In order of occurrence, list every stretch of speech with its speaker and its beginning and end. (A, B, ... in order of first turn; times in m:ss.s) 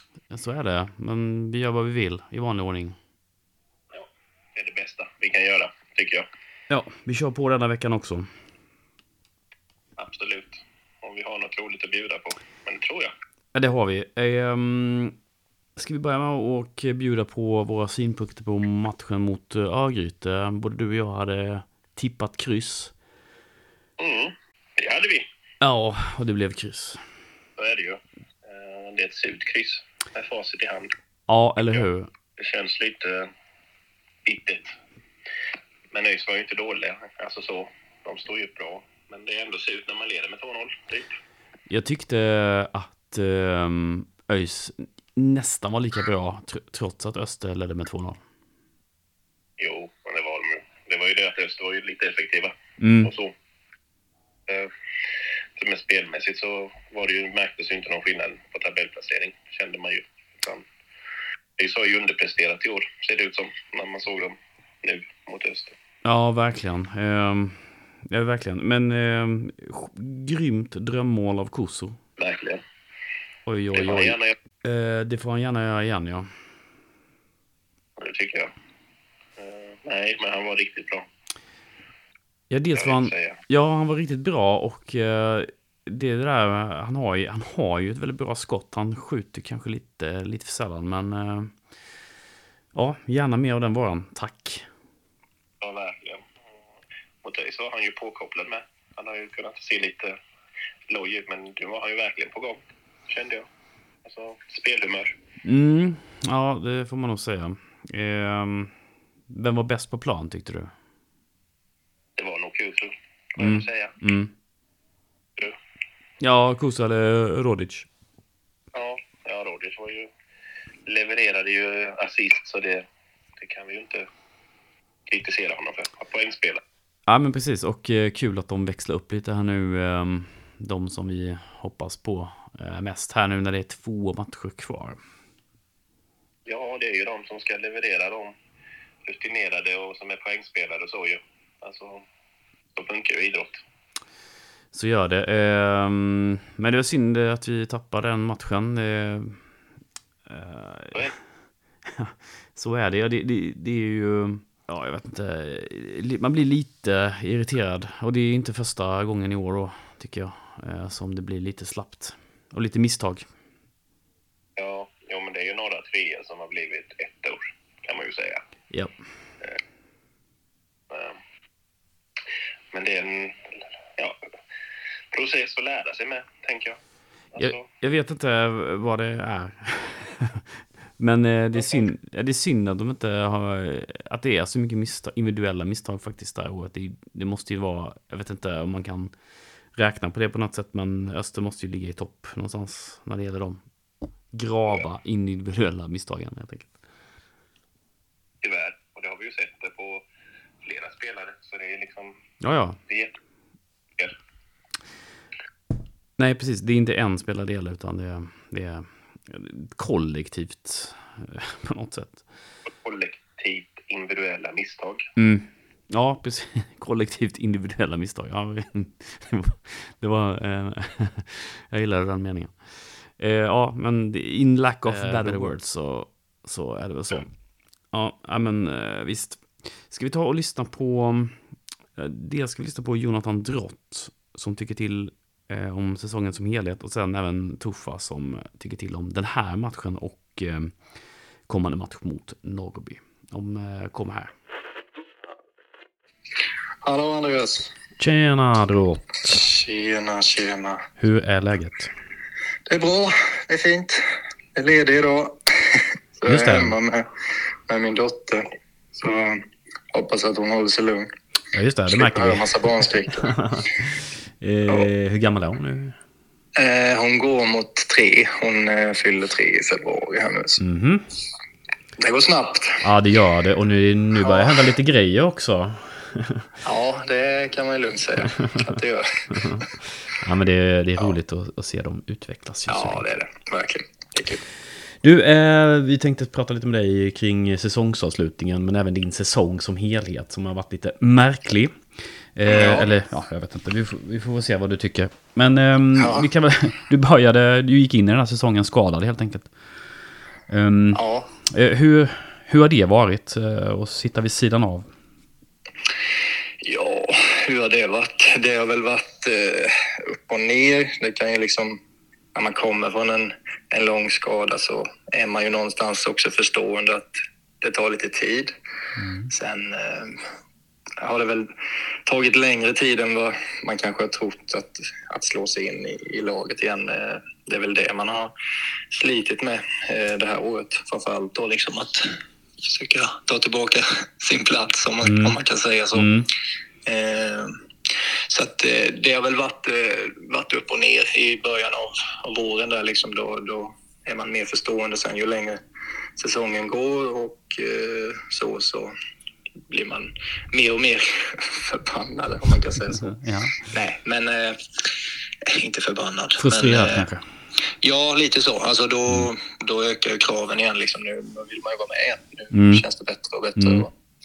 0:00.3-0:03.0 A
0:03.9-0:06.2 B
0:06.7-0:08.3 A
0:10.0-0:13.1 B
0:13.5-0:15.1 A
0:15.8-0:22.9 A
0:24.0-0:25.3 B
0:25.6-0:27.0 A
0:27.6-0:30.9 B
0:31.3-0:32.1 A
0:32.4-0:33.3 B
0:34.2-0:34.7 B
0:35.9-0:41.1 B
0:41.7-0:48.2 A
0:49.6-0:53.3 B
0:52.8-0:53.1 A
0:54.5-0:54.7 B
0:55.6-1:00.6 B
1:01.6-1:05.8 B
1:06.0-1:12.0 A
1:12.2-1:12.6 B
1:13.5-1:16.3 A
1:13.7-1:14.3 B
1:18.0-1:18.5 B
1:19.4-1:21.1 B
1:22.5-1:31.6 A
1:22.7-1:23.4 B
1:32.7-1:34.7 A
1:35.6-1:36.3 B
1:37.2-1:40.2 B
1:40.9-1:43.4 B
1:44.0-1:45.1 B
1:45.4-1:48.7 A
1:49.3-1:50.7 A
1:52.2-1:54.0 B
1:53.4-1:54.3 A
1:56.2-1:57.9 A
1:58.7-2:00.1 B
2:00.9-2:02.8 B
2:03.4-2:04.1 B
2:05.1-2:06.6 B
2:07.1-2:15.0 A
2:16.4-2:18.3 B
2:19.0-2:22.0 B
2:22.8-2:23.6 B
2:24.7-2:29.4 A
2:30.3-2:31.1 A
2:31.8-2:43.3 A
2:44.6-2:48.4 B
2:50.9-2:51.2 B
2:52.7-2:54.2 B
2:55.1-2:56.8 B
2:57.3-2:57.7 B
2:57.4-3:00.4 A
3:01.0-3:09.1 A
3:01.5-3:01.9 B
3:09.7-3:13.6 A
3:14.3-3:16.7 A
3:18.4-3:20.0 B
3:20.6-3:22.2 B
3:22.4-3:22.8 A
3:22.9-3:23.1 B
3:26.2-3:32.2 A
3:32.7-3:35.0 B
3:35.2-3:42.5 A
3:43.2-3:47.3 A
3:44.9-3:45.2 B
3:47.9-3:51.4 A
3:52.0-4:00.8 A
4:01.5-4:04.3 A
4:06.8-4:07.7 C
4:08.0-4:09.4 A
4:09.2-4:10.8 C
4:11.0-4:11.9 A
4:12.7-4:14.0 C
4:14.5-4:17.1 C
4:16.2-4:16.8 A
4:17.7-4:21.1 C
4:21.5-4:26.0 A
4:21.9-4:23.3 C
4:26.6-4:30.6 C
4:30.6-4:31.0 A
4:32.0-4:32.9 C
4:32.8-4:36.5 A
4:34.2-4:34.6 C
4:36.6-4:39.6 C
4:39.3-4:43.0 A
4:42.7-4:44.4 C
4:45.0-4:59.5 A
4:52.4-4:52.9 C
4:56.0-4:56.3 C
5:00.5-5:04.9 A
5:00.9-5:01.3 C
5:06.6-5:11.8 C
5:12.3-5:18.5 C
5:19.0-5:19.3 A
5:19.3-5:20.2 C
5:21.0-5:21.5 C
5:22.0-5:28.3 C
5:28.9-5:36.2 C
5:35.0-5:35.4 A
5:35.9-5:36.3 A
5:36.8-5:37.6 C
5:38.3-5:45.6 C
5:46.2-5:48.9 C
5:49.7-5:54.9 C
5:52.9-5:53.6 A
5:55.4-5:57.1 C
5:56.4-5:57.2 A
5:57.8-6:03.9 C
6:02.5-6:02.8 A
6:03.6-6:03.8 A